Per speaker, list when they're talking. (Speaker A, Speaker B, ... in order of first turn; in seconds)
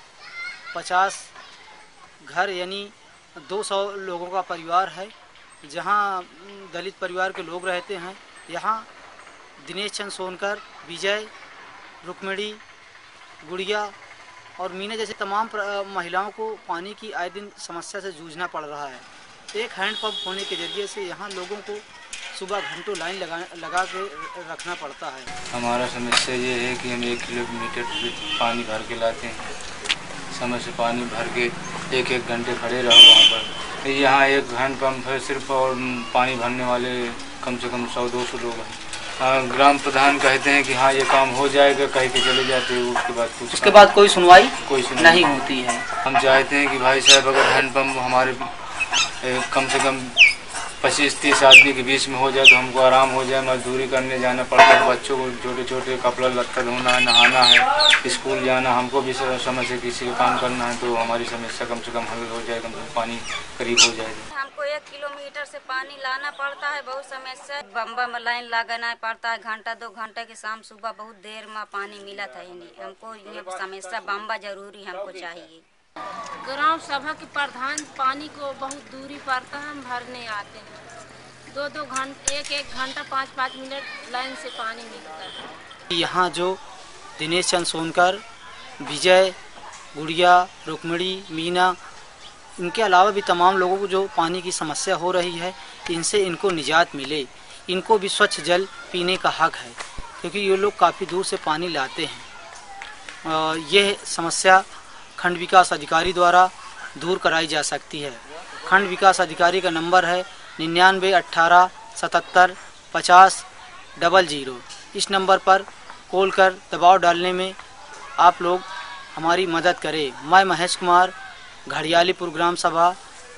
Speaker A: 0.7-1.3, 2.2-5.1, 5.6-8.9, 9.6-11.3, 12.0-12.6, 13.4-13.9, 14.6-25.3, 43.5-45.9, 85.9-86.6, 87.2-88.2, 88.8-89.4, 89.9-91.8, 92.6-102.3, 103.2-117.6, 118.2-121.2, 121.7-123.0
Speaker B: 25.5-29.5, 30.3-43.9, 44.6-45.4, 46.0-48.5, 49.2-50.2, 50.8-64.3
Speaker C: 64.3-75.6
Speaker D: 76.4-80.9, 81.5-85.5